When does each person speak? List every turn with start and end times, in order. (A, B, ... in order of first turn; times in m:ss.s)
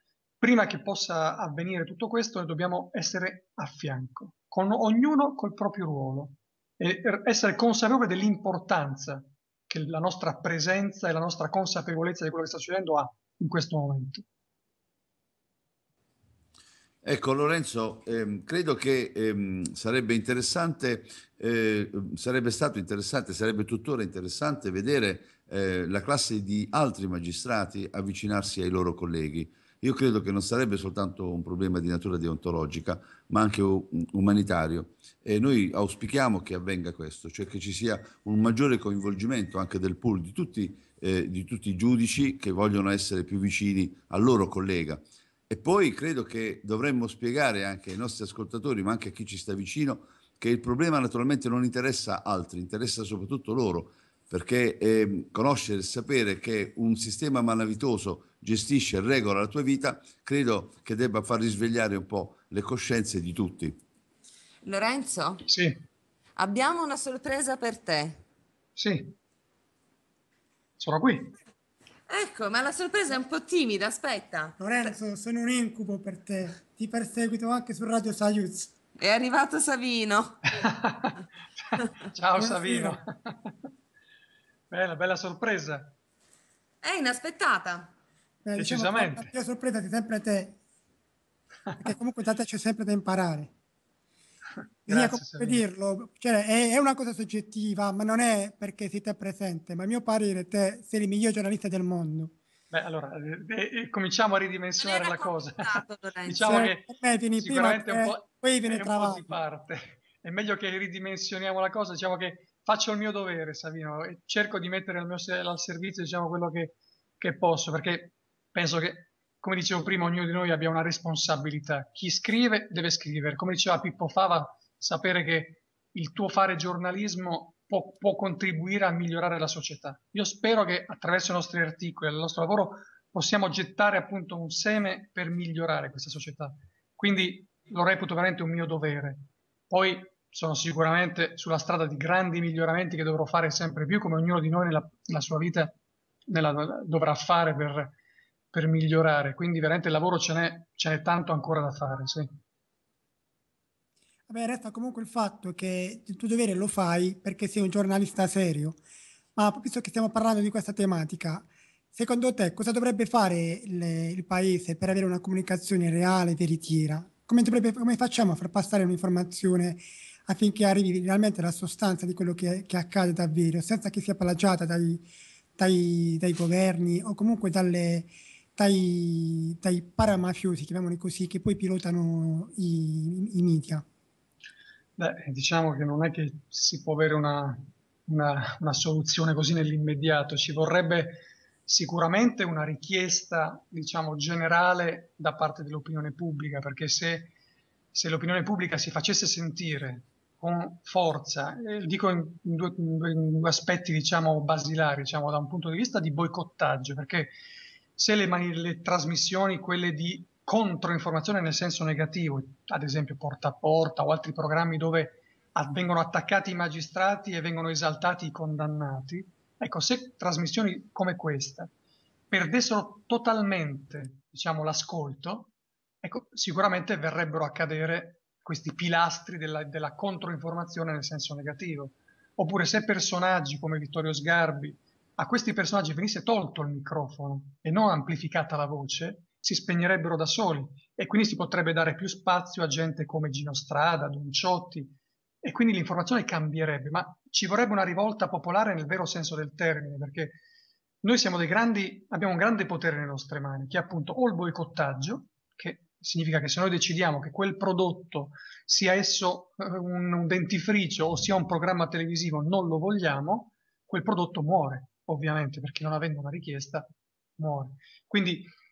0:00.4-0:14.2 A
0:17.0-1:03.8 B
1:04.6-1:05.5 C
1:05.5-1:05.8 A
1:06.4-1:08.2 C
1:08.8-1:09.2 A
1:10.8-1:11.4 A
1:12.1-1:14.9 C
1:14.6-1:18.7 D
1:19.0-1:20.5 C
1:20.5-1:21.2 A
1:22.1-1:23.6 A
1:22.4-1:23.0 D
1:24.7-1:26.0 A
1:26.8-1:27.9 C
1:28.4-1:30.6 D
1:28.6-1:29.3 A
1:31.8-1:33.5 D
1:34.9-1:35.6 A
1:34.9-1:42.4 D
1:42.7-2:25.8 A
1:44.8-1:46.6 C
1:46.4-1:49.3 D
2:26.3-2:28.0 A
2:28.5-2:32.3 A
2:34.3-2:38.8 D
2:39.4-2:55.1 D
2:55.6-3:03.8 D
3:05.0-3:17.3 A
3:17.9-3:27.3 A
3:28.0-3:41.7 A
3:42.3-3:45.5 A
3:46.0-4:10.4 A
4:11.0-4:28.5 A